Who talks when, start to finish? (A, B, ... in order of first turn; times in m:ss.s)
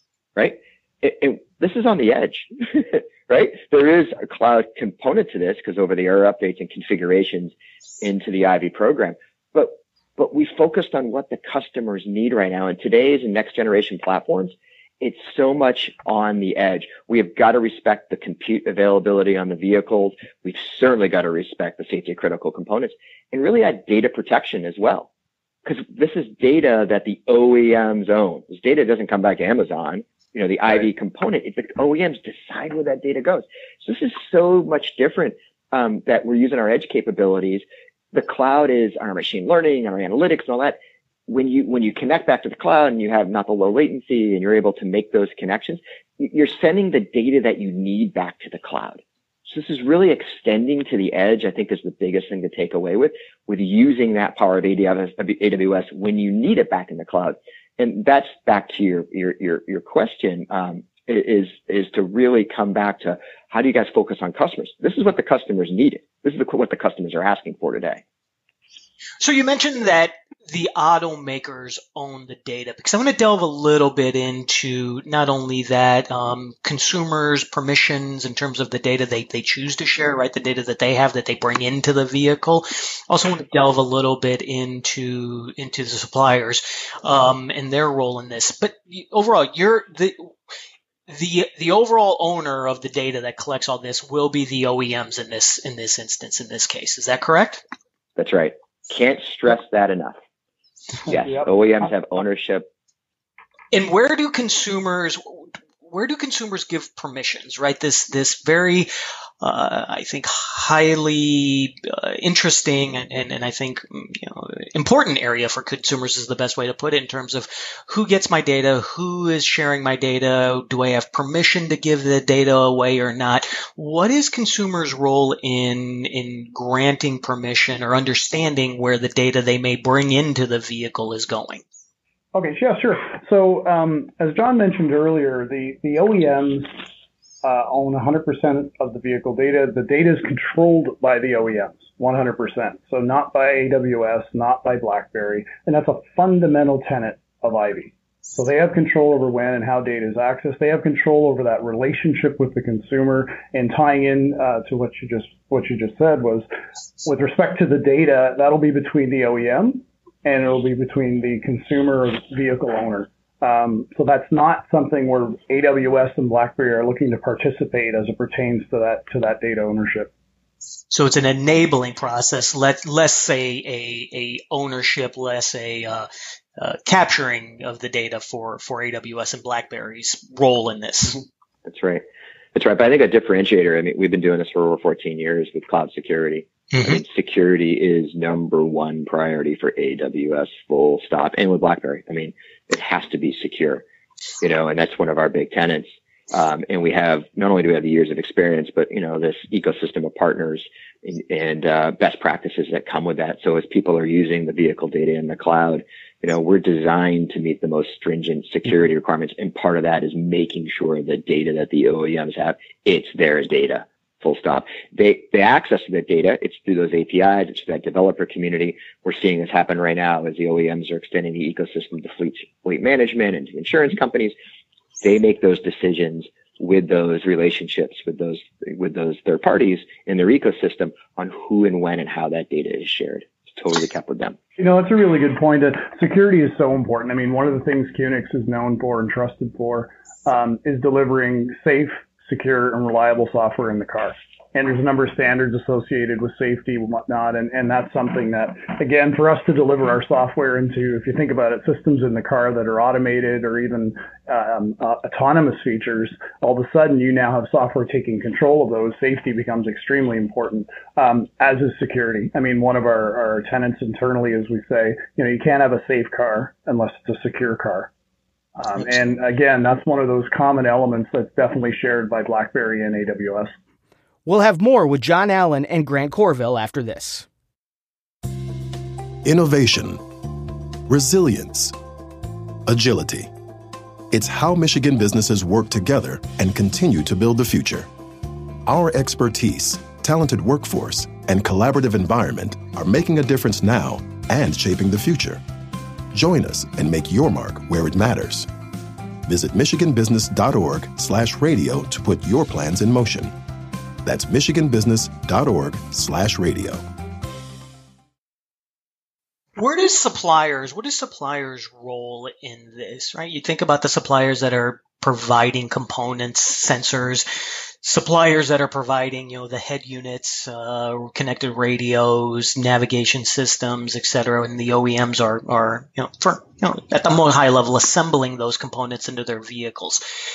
0:00.4-0:25.1 A
0:25.6-1:08.0 A
1:09.2-1:30.2 B
1:31.1-1:37.6 B
1:38.2-1:40.2 A
1:41.0-1:42.7 A
1:43.7-1:48.9 B
1:49.4-2:11.6 B
2:12.3-2:16.8 C
2:17.4-2:36.5 C
2:37.0-2:50.1 C
2:50.9-3:01.2 B
3:01.6-3:02.0 A
3:02.5-3:13.8 A
3:06.7-3:07.0 B
3:14.4-3:44.3 A
3:45.0-3:54.4 A
3:54.6-4:27.9 C
4:28.6-4:33.5 C
4:34.2-4:37.2 D
4:39.2-4:40.0 E
4:40.9-4:41.7 E
4:42.6-4:43.3 E
4:44.1-4:47.9 E
4:48.6-4:55.4 E
4:56.1-4:58.5 E
4:59.2-5:03.3 E
5:04.0-5:06.8 E
5:09.6-5:17.3 B
5:17.8-5:30.0 B